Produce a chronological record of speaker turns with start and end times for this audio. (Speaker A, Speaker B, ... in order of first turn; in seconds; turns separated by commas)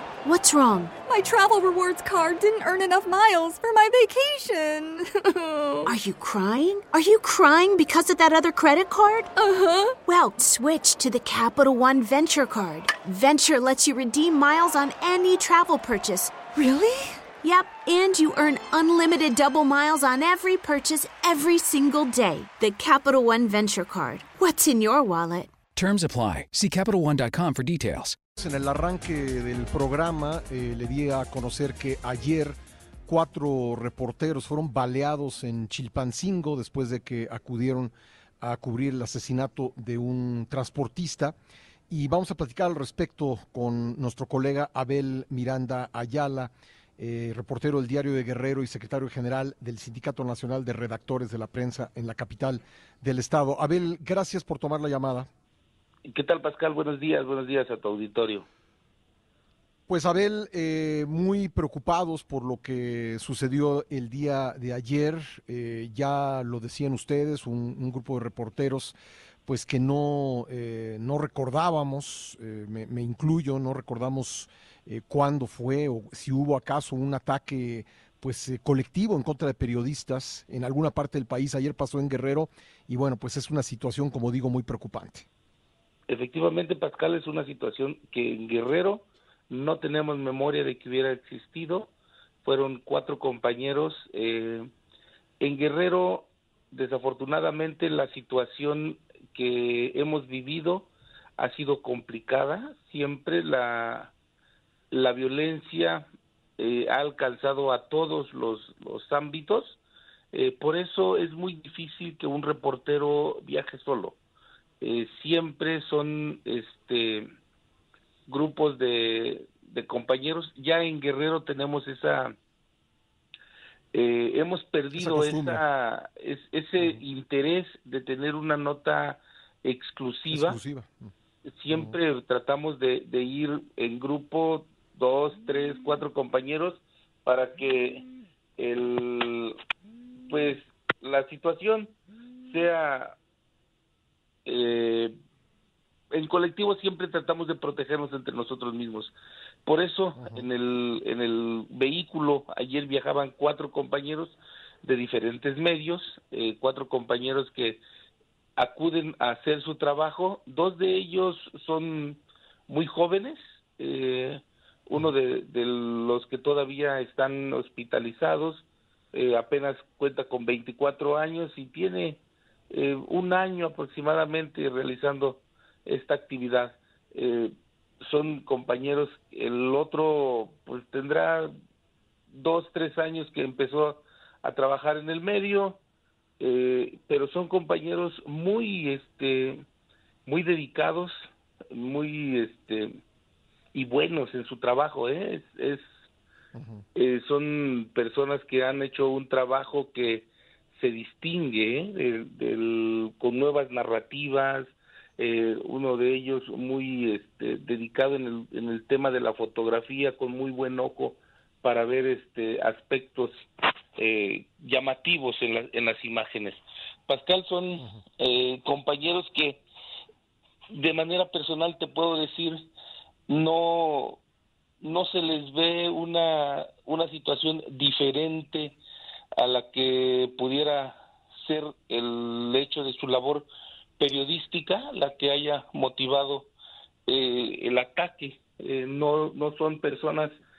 Speaker A: 0.2-0.9, Speaker B: 1.1-5.9, Speaker A: 5.8-9.3, Speaker B: 9.4-10.0, Speaker A: 10.1-16.5, Speaker B: 16.5-17.2, Speaker A: 17.4-25.5, Speaker C: 25.8-28.2, Speaker D: 28.4-41.4, Speaker D: 41.9-55.3, Speaker E: 56.1-58.5, Speaker D: 59.9-85.3, Speaker E: 86.1-91.9, Speaker E: 92.5-94.7, Speaker E: 95.4-104.1, Speaker E: 104.9-106.1, Speaker E: 106.6-109.8, Speaker E: 110.3-114.2, Speaker E: 114.8-117.3, Speaker E: 118.3-122.3, Speaker E: 123.9-130.6, Speaker D: 125.0-125.6, Speaker D: 130.3-131.1, Speaker E: 131.5-138.1, Speaker E: 138.6-139.6, Speaker E: 140.3-141.9, Speaker E: 142.5-143.2, Speaker E: 144.5-145.2, Speaker E: 146.1-149.1, Speaker E: 149.7-157.8, Speaker D: 150.2-150.4, Speaker E: 158.6-172.2, Speaker E: 172.7-177.5, Speaker E: 178.0-181.5, Speaker E: 182.3-185.8, Speaker E: 186.4-189.6, Speaker E: 190.3-191.2, Speaker E: 191.7-193.0, Speaker E: 193.7-195.8, Speaker D: 196.6-196.8, Speaker E: 196.9-213.3, Speaker E: 214.0-219.6, Speaker E: 220.7-222.7, Speaker E: 223.3-224.2, Speaker E: 224.8-228.8, Speaker E: 229.4-233.5, Speaker E: 234.0-236.5, Speaker E: 237.1-240.3